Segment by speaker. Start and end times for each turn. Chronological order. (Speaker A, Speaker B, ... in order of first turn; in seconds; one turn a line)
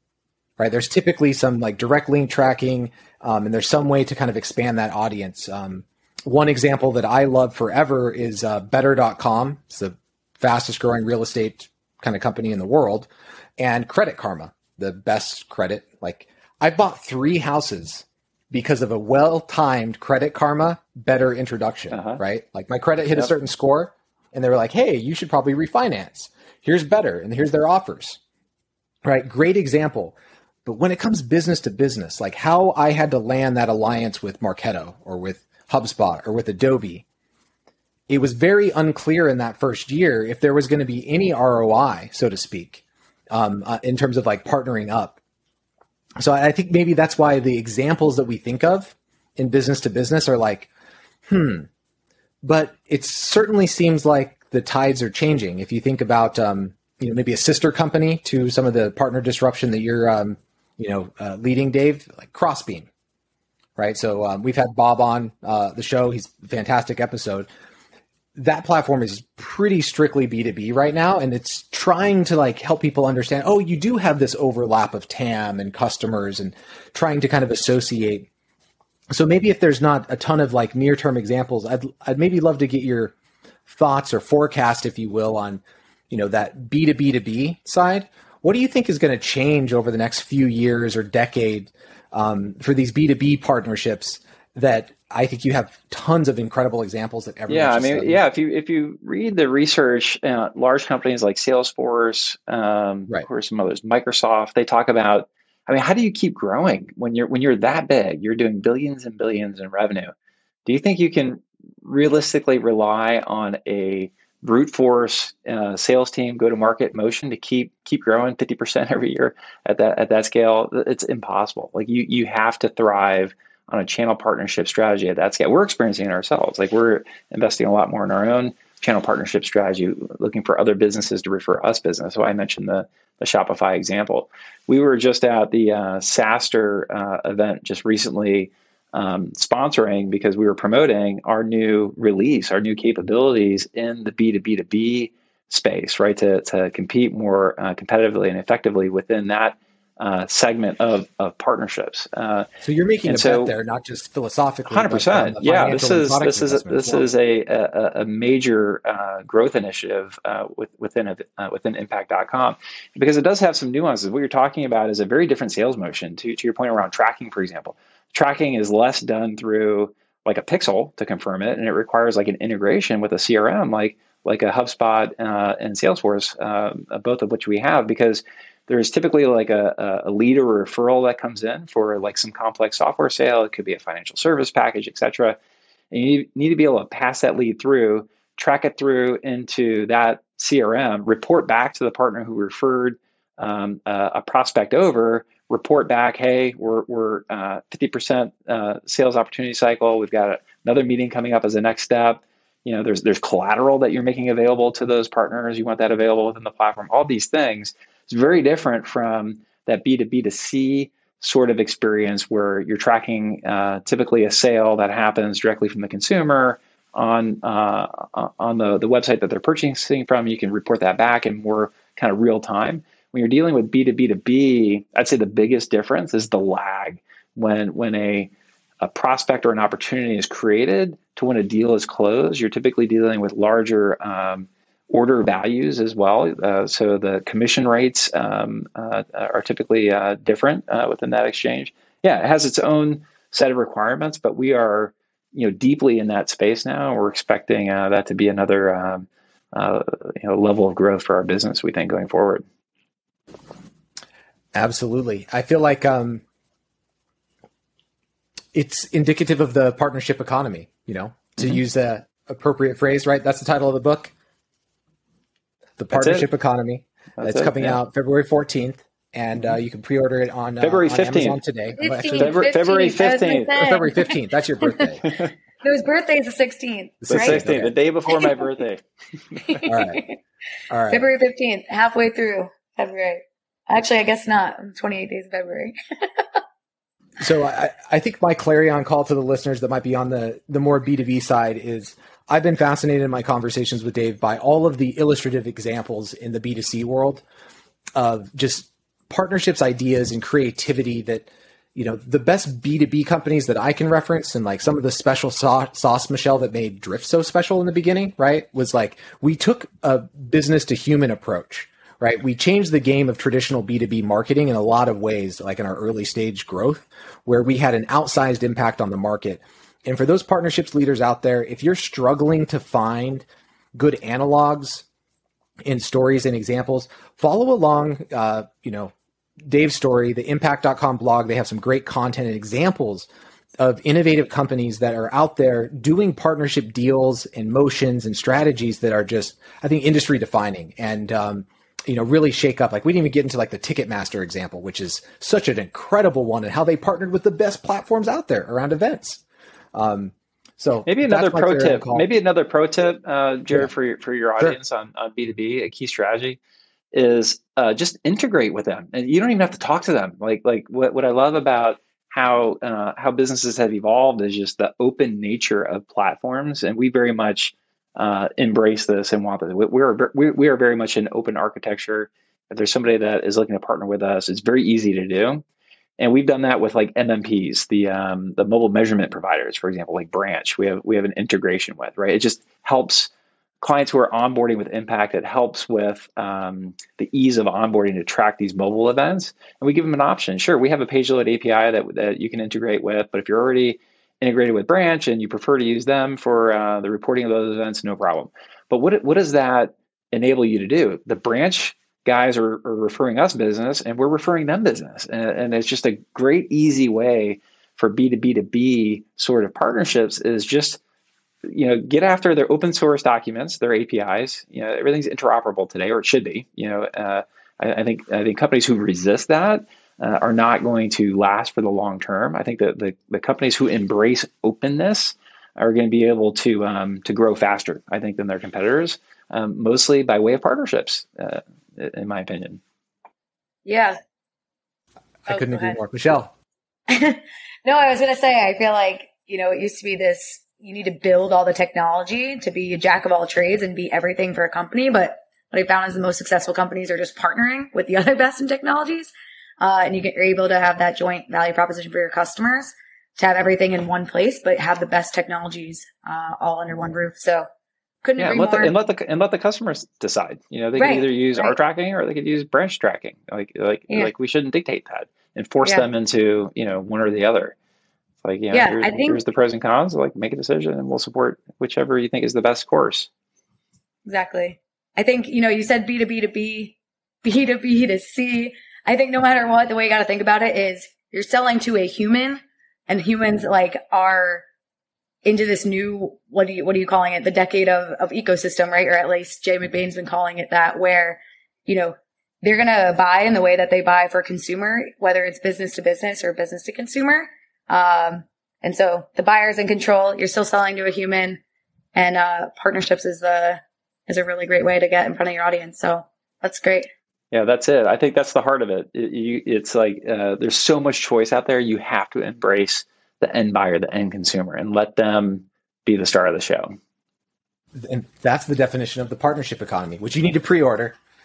Speaker A: 0.6-28.2
Speaker B: 21.9-22.2
Speaker A: 29.1-37.0
Speaker A: 38.1-45.2
Speaker A: 46.2-50.7
Speaker A: 51.3-51.7
Speaker A: 52.4-62.9
Speaker A: 63.8-67.5
Speaker A: 68.3-78.3
Speaker A: 79.1-83.1
Speaker A: 83.7-98.2
Speaker B: 97.5-110.1
Speaker B: 110.7-152.5
Speaker A: 152.6-157.1
Speaker B: 153.1-153.5
Speaker B: 154.7-185.4
Speaker B: 185.9-252.4
Speaker A: 254.6-256.2
Speaker A: 258.5-264.1
Speaker A: 265.8-272.4
Speaker B: 265.9-266.3
Speaker B: 267.2-267.8
Speaker B: 270.6-271.4
Speaker C: 271.8-274.9
Speaker B: 272.1-273.6
Speaker A: 273.6-275.1
Speaker C: 275.6-277.4
Speaker A: 277.0-277.7
Speaker B: 277.1-278.8
Speaker C: 278.1-278.5
Speaker C: 279.4-280.2
Speaker A: 279.7-280.0
Speaker A: 280.7-281.1
Speaker C: 280.9-286.4
Speaker A: 287.2-297.2
Speaker A: 298.0-324.9
Speaker A: 325.7-328.9
Speaker A: 329.5-333.1
Speaker A: 333.6-349.2
Speaker A: 349.7-352.1
Speaker B: 350.9-356.4
Speaker B: 356.9-375.4
Speaker B: 376.0-410.8
Speaker B: 411.4-432.6
Speaker C: 433.7-434.0
Speaker A: 435.3-436.3
Speaker C: 435.3-435.8
Speaker C: 436.9-457.5
Speaker C: 458.0-458.7
Speaker B: 458.2-467.6
Speaker C: 460.8-461.6
Speaker B: 468.2-473.1
Speaker C: 468.5-469.2
Speaker C: 474.1-484.4
Speaker C: 485.2-501.4
Speaker C: 501.9-506.9
Speaker B: 507.3-516.8
Speaker A: 517.8-521.0